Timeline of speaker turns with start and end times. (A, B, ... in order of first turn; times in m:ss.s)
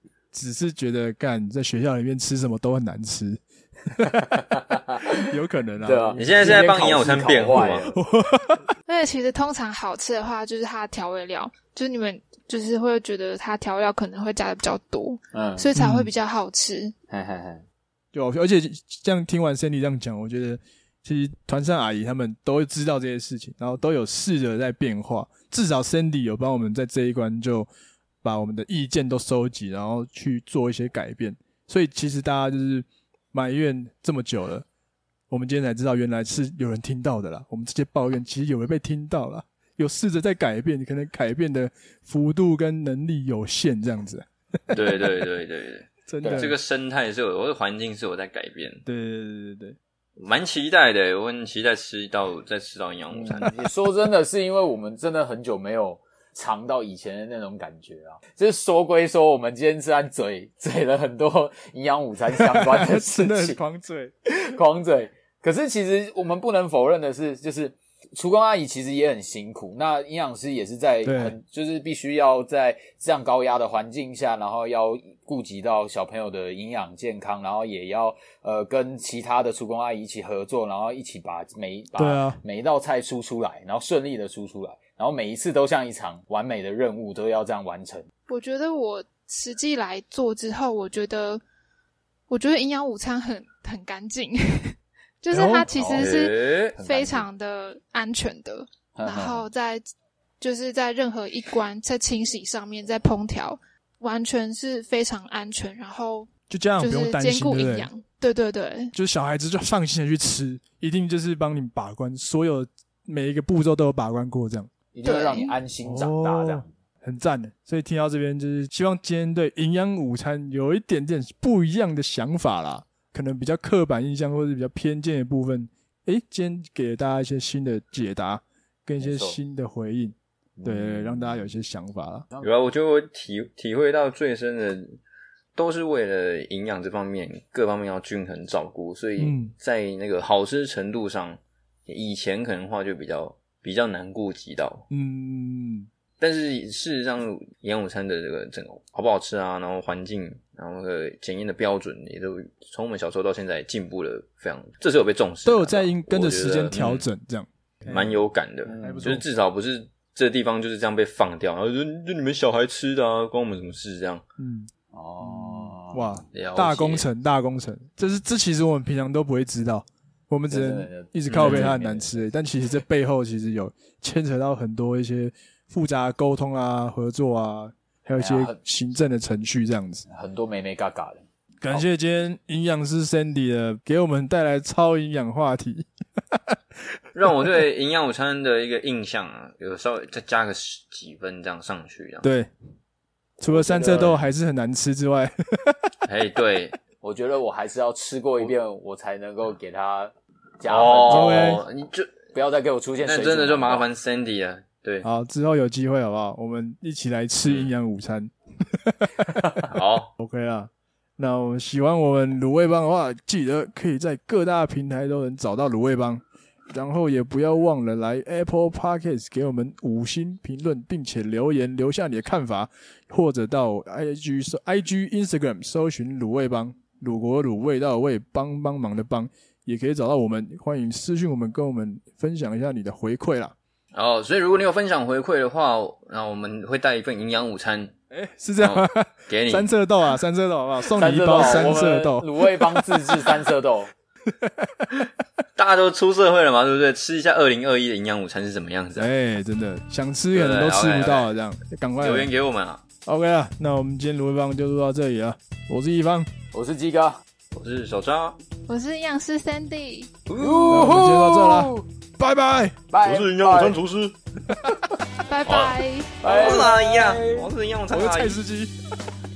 0:00.3-0:04.2 A
0:04.1-0:08.0 B
0:05.2-0:06.6 A
0:06.2-0:07.9 C
0:07.9-0:08.6 A
0:08.9-0:16.9 D
0:15.3-0:15.7 B
0:15.8-0:16.1 A
0:17.1-0:17.6 B
0:18.1-0:27.7 A
0:28.2-0:34.6 A
0:35.3-0:45.1 A
0:44.7-0:48.8 C
0:46.1-0:46.6 A
0:46.2-0:46.5 B
0:48.9-0:49.8 A
0:50.2-0:53.7 C
0:53.1-1:03.6 B
1:02.4-1:04.1 A
1:04.3-1:28.1 B
1:11.0-1:11.4 A
1:22.0-1:22.4 A
1:28.3-1:31.4 D
1:32.3-1:39.8 D
1:35.3-1:35.7 A
1:35.7-1:36.2 B
1:36.0-1:36.8 C
1:36.7-1:37.3 B
1:39.0-1:39.4 B
1:40.4-1:48.9 D
1:46.5-1:47.9 A
1:48.9-1:54.7 A
1:54.9-1:56.7 B
1:55.0-1:55.6 D
1:55.8-2:12.3 A
2:09.0-2:09.4 B
2:10.6-2:11.5 B
2:12.4-2:15.0 C
2:15.6-2:24.8 C
2:19.2-2:19.5 A
2:24.9-2:25.9 A
2:26.2-2:37.1 C
2:35.4-2:38.2 A
2:37.8-2:44.2 C
2:38.7-2:39.1 B
2:38.8-2:39.2 A
2:44.4-3:00.1 A
2:44.9-2:46.1 B
2:46.3-2:47.1 C
2:50.5-2:52.3 B
2:51.3-2:51.7 C
2:58.2-2:58.6 B
3:00.1-3:01.8 B
3:01.6-3:06.6 A
3:07.1-3:12.2 C
3:12.2-3:12.5 A
3:13.4-3:15.8 A
3:13.5-3:14.2 B
3:13.8-3:14.2 C
3:16.0-3:16.8 C
3:17.0-3:21.6 B
3:20.7-3:22.1 C
3:21.1-3:21.6 A
3:22.3-3:23.9 B
3:23.0-3:25.1 C
3:25.0-3:29.3 A
3:27.5-3:27.7 C
3:29.7-3:30.1 C
3:30.2-3:53.6 A
3:53.9-3:57.9 C
3:58.1-4:03.4 A
3:58.6-3:59.7 C
4:01.0-4:03.9 B
4:04.3-4:05.1 A
4:05.6-4:09.1 C
4:09.0-4:12.3 A
4:10.3-4:11.3 C
4:12.0-4:12.8 C
4:13.0-4:16.3 A
4:16.5-4:17.2 B
4:17.5-4:18.4 C
4:18.7-4:20.1 D
4:20.3-4:21.0 C
4:20.4-4:21.8 B
4:20.7-4:22.8 A
4:22.9-4:23.8 B
4:23.0-4:24.2 C
4:25.3-4:26.6 D
4:25.5-4:28.4 C
4:26.2-4:27.5 B
4:27.9-4:28.7 A